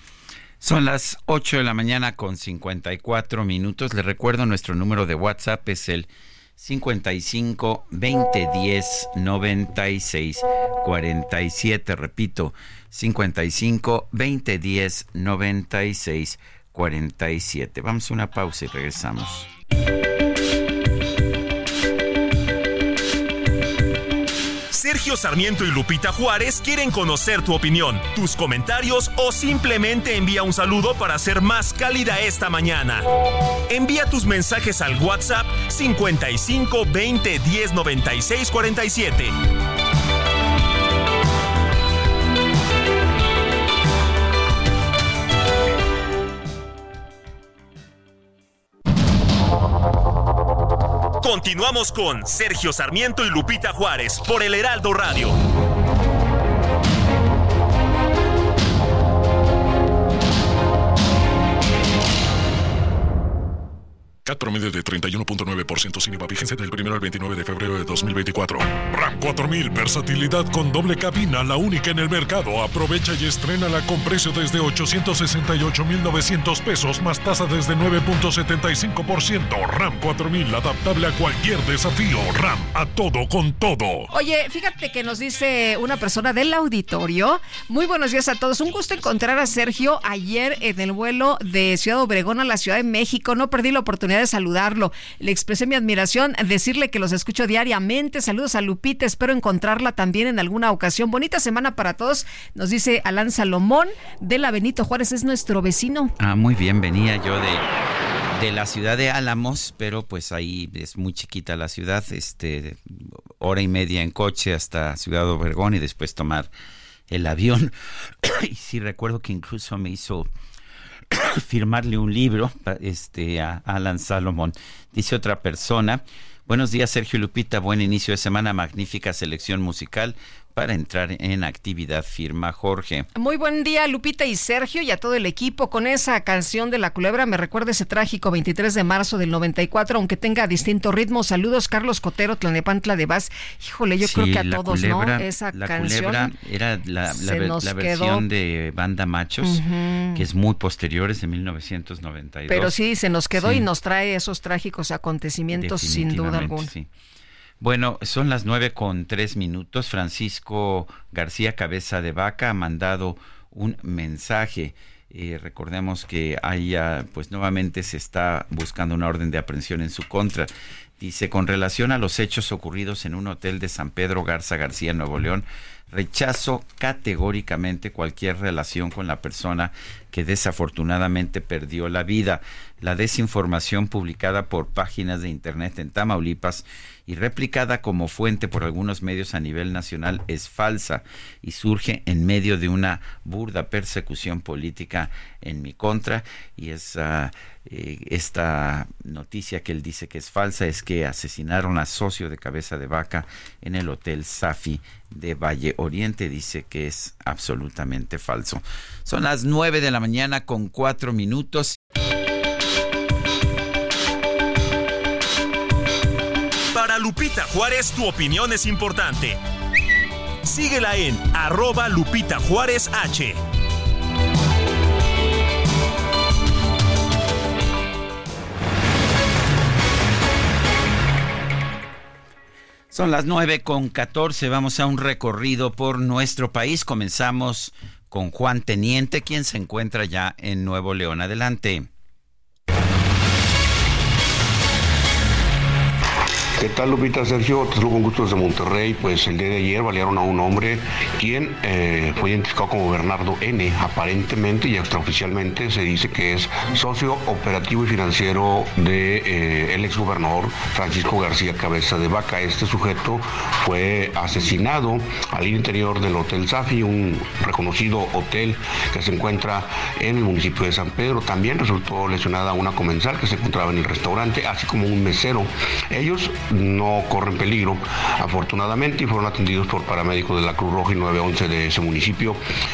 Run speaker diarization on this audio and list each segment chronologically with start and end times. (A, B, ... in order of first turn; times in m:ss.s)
0:00.6-0:19.5 A
0:24.7-0:33.0 B
0:33.7-0:39.4 B
0:51.2-0:55.4 B
1:04.2-1:24.1 C
1:24.1-1:46.1 D
1:46.2-1:47.7 A
1:48.4-1:56.5 A
1:57.1-2:00.3 A
2:01.1-2:13.1 A
2:13.1-2:26.3 D
2:24.0-2:29.6 A
2:27.1-2:28.2 D
2:29.4-2:30.2 D
2:30.1-2:32.7 A
2:32.5-2:36.7 D
2:33.4-2:33.7 A
2:35.5-2:36.9 A
2:37.6-3:31.8 A
3:36.7-3:39.4 B
3:40.4-3:43.4 B
3:52.9-4:01.9 A
4:06.6-4:42.4 E